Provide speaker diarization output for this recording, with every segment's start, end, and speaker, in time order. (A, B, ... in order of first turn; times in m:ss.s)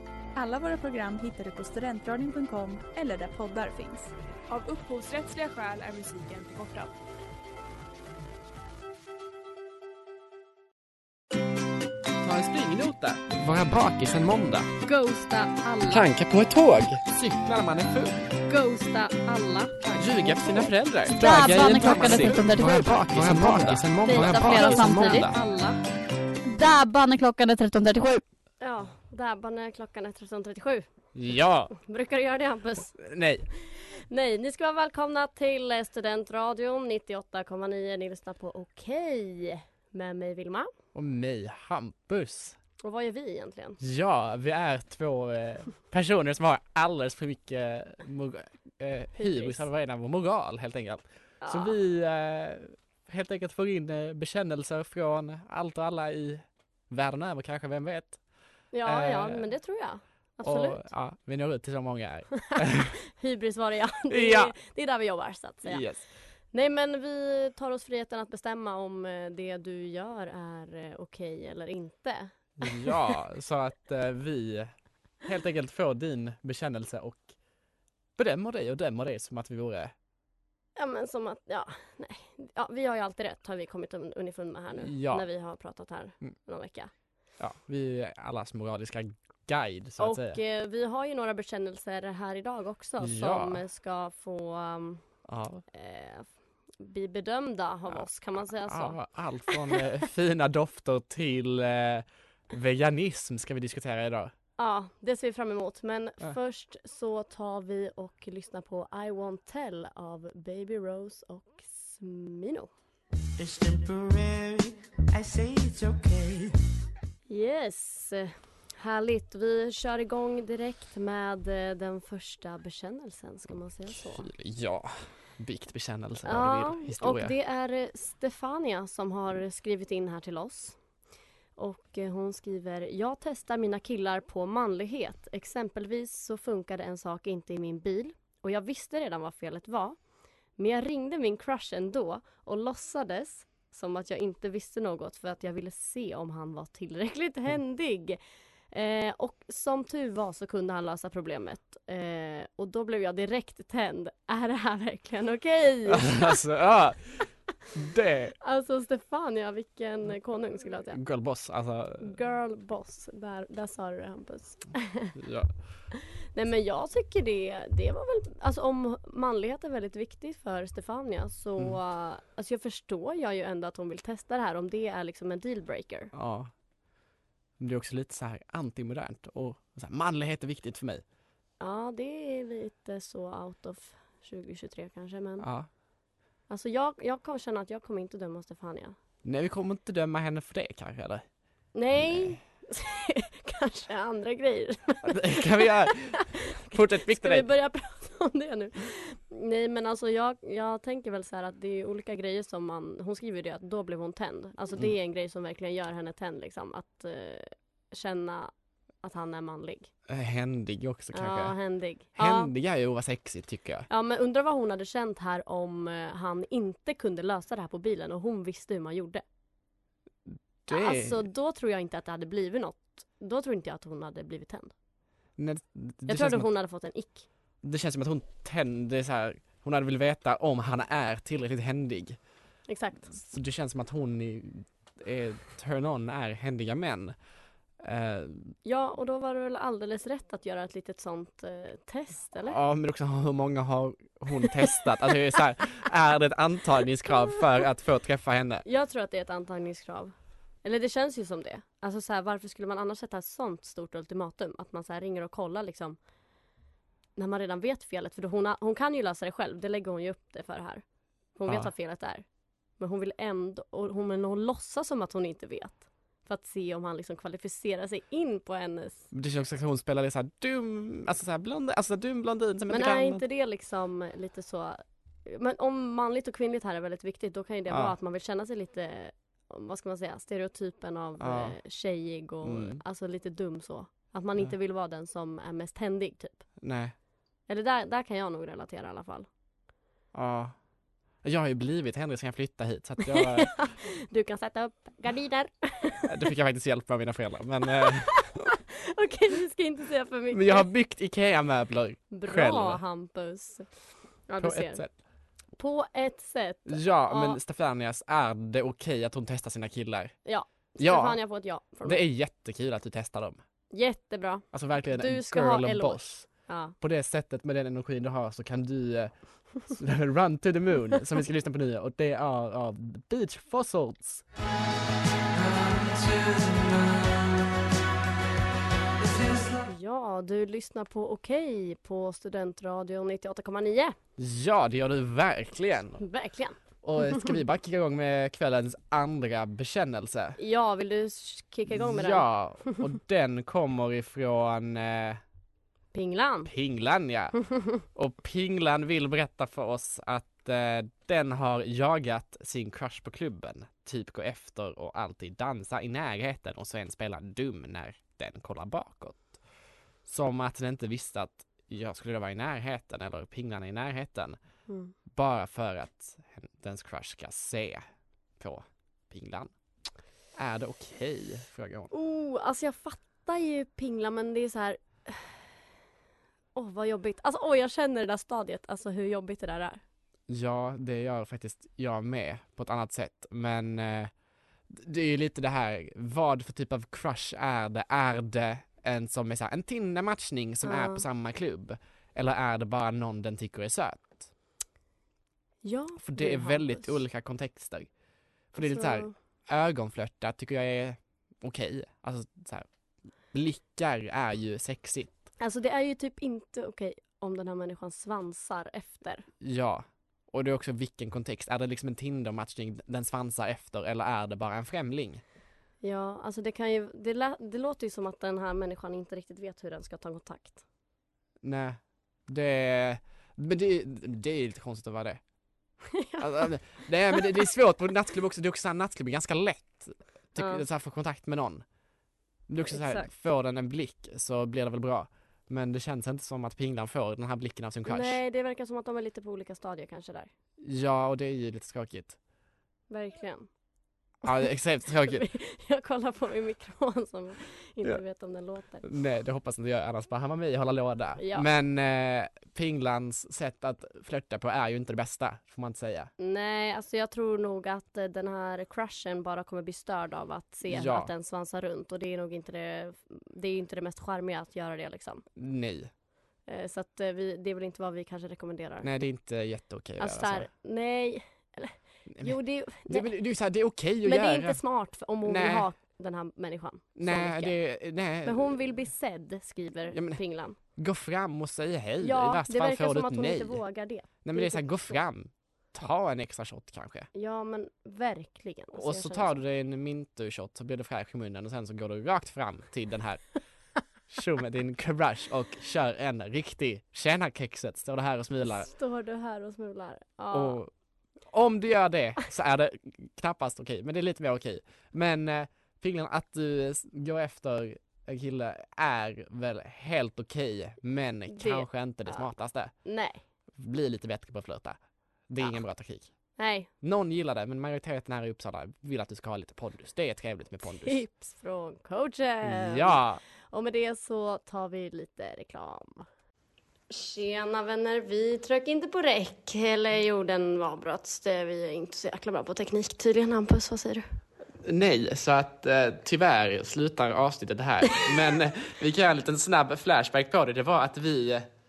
0:00.4-0:04.1 A
0:04.5-0:06.9 B
0:12.2-0:14.7 C
0:14.8-0:16.1 D
0:15.9-0:18.2 C
0:18.5-0:20.7 D
0:20.0-0:25.4 C
0:21.2-0:25.3 E
0:24.0-0:25.8 D
0:26.5-0:28.2 E
0:28.6-0:30.9 D
0:31.2-0:31.7 C
0:31.7-0:33.0 D
0:33.0-0:33.5 C
0:33.7-0:40.7 D
0:41.0-0:42.6 C
0:42.8-0:43.8 D
0:43.8-0:58.2 C
0:49.2-0:49.7 D
0:51.4-0:51.8 D
0:58.7-1:00.9 D
0:58.8-0:59.5 C
1:00.4-1:03.0 C
1:03.1-1:05.8 D
1:04.1-1:04.5 C
1:05.6-1:06.0 C
1:06.5-1:13.0 D
1:12.6-1:14.7 C
1:15.2-1:17.3 C
1:18.2-1:19.9 C
1:20.8-1:26.9 D
1:24.8-1:25.3 C
1:27.4-1:30.4 C
1:30.0-1:35.0 D
1:33.0-1:33.6 C
1:35.3-1:35.6 C
1:35.7-1:39.0 D
1:38.6-1:44.3 C
1:39.5-1:39.8 D
1:44.6-1:52.7 D
1:53.4-1:56.6 F
1:57.3-2:04.3 D
2:04.0-2:07.3 C
2:06.2-2:10.8 D
2:11.6-2:20.0 D
2:20.6-2:28.2 D
2:28.7-2:36.4 D
2:35.9-2:37.2 C
2:37.7-2:38.4 C
2:38.4-2:41.0 D
2:40.9-2:42.2 C
2:42.0-2:45.2 D
2:45.2-2:45.5 C
2:45.9-2:56.1 D
2:56.1-2:56.5 C
2:57.6-3:01.0 C
3:01.6-3:05.5 D
3:05.4-3:05.7 C
3:06.5-3:09.0 D
3:09.2-3:11.2 C
3:11.8-3:28.5 D
3:15.0-3:17.5 C
3:29.0-3:29.9 D
3:30.1-3:31.6 C
3:31.1-3:32.5 D
3:32.2-3:33.9 C
3:33.9-3:39.2 D
3:40.7-3:41.2 C
3:40.7-3:44.7 D
3:45.4-3:46.5 C
3:46.1-3:47.3 D
3:47.6-3:52.2 C
3:52.7-3:53.1 D
3:53.1-3:57.1 C
3:57.8-3:58.6 C
3:58.6-4:02.6 D
4:02.5-4:08.7 C
4:08.6-4:16.0 D
4:17.2-4:20.8 D
4:21.4-4:22.2 D
4:22.8-4:29.1 D
4:29.1-4:33.2 C
4:32.7-4:46.4 D
4:37.7-4:38.0 C
4:41.2-4:41.6 C
4:42.4-4:42.8 C
4:46.6-4:46.9 C
4:47.5-4:49.3 D
4:50.1-4:50.5 C
4:51.2-4:53.6 C
4:53.0-4:56.2 D
4:56.1-4:58.3 C
4:57.8-5:00.7 D
5:00.3-5:02.8 C
5:02.1-5:03.7 D
5:04.3-5:04.8 D
5:04.4-5:04.9 C
5:05.6-5:07.4 D
5:06.7-5:10.2 C
5:10.2-5:12.0 D
5:10.8-5:11.2 C
5:11.8-5:13.4 C
5:13.7-5:16.8 D
5:14.5-5:16.3 C
5:16.8-5:19.1 C
5:19.7-5:24.2 C
5:29.6-5:34.0 D
5:34.2-5:36.0 C
5:36.0-5:36.6 D
5:36.8-5:40.4 C
5:40.4-5:42.8 D
5:41.7-5:45.2 C
5:45.9-5:46.5 D
5:46.4-5:59.4 C
6:00.1-6:04.4 C
6:04.7-6:05.0 D
6:05.1-6:07.8 C
6:08.4-6:09.5 C
6:10.4-6:11.9 C
6:11.9-6:15.5 D
6:16.6-6:19.8 D
6:20.3-6:24.1 C
6:24.7-6:34.3 C
6:30.6-6:31.1 D
6:35.6-6:37.0 D
6:36.0-6:37.9 C
6:38.5-6:42.7 C
6:38.6-6:39.1 D
6:43.3-6:45.2 C
6:45.4-6:49.3 D
6:49.4-6:55.2 C
6:55.8-7:00.6 D
7:01.4-7:01.8 C
7:02.3-7:05.2 C
7:05.9-7:06.5 D
7:06.2-7:11.6 C
7:10.4-7:10.6 D
7:12.5-7:18.2 C
7:12.7-7:13.1 D
7:17.9-7:20.3 D
7:20.6-7:22.2 C
7:22.9-7:23.5 D
7:24.2-7:25.2 C
7:25.0-7:28.9 D
7:28.8-7:36.1 C
7:31.2-7:31.5 D
7:36.2-7:45.2 D
7:40.7-7:41.1 C
7:45.4-7:45.9 C
7:46.5-7:48.9 D
7:48.8-7:50.5 C
7:50.0-7:53.1 D
7:52.1-7:54.6 C
7:54.0-7:57.6 D
7:55.2-7:55.7 C
7:57.0-7:58.6 C
7:58.2-8:00.6 D
7:59.9-8:00.2 C
8:00.8-8:03.6 C
8:02.0-8:05.0 D
8:04.2-8:07.1 C
8:07.1-8:09.4 D
8:08.7-8:13.3 C
8:14.1-8:18.7 C
8:18.4-8:20.6 D
8:20.3-8:20.7 C
8:21.3-8:32.7 C
8:31.3-8:32.3 D
8:32.8-8:33.2 D
8:33.6-8:34.8 C
8:35.3-8:36.1 C
8:36.4-8:36.7 D
8:36.8-8:41.0 C
8:40.6-8:46.1 D
8:42.4-8:43.2 C
8:46.9-8:54.0 D
8:54.6-9:01.5 C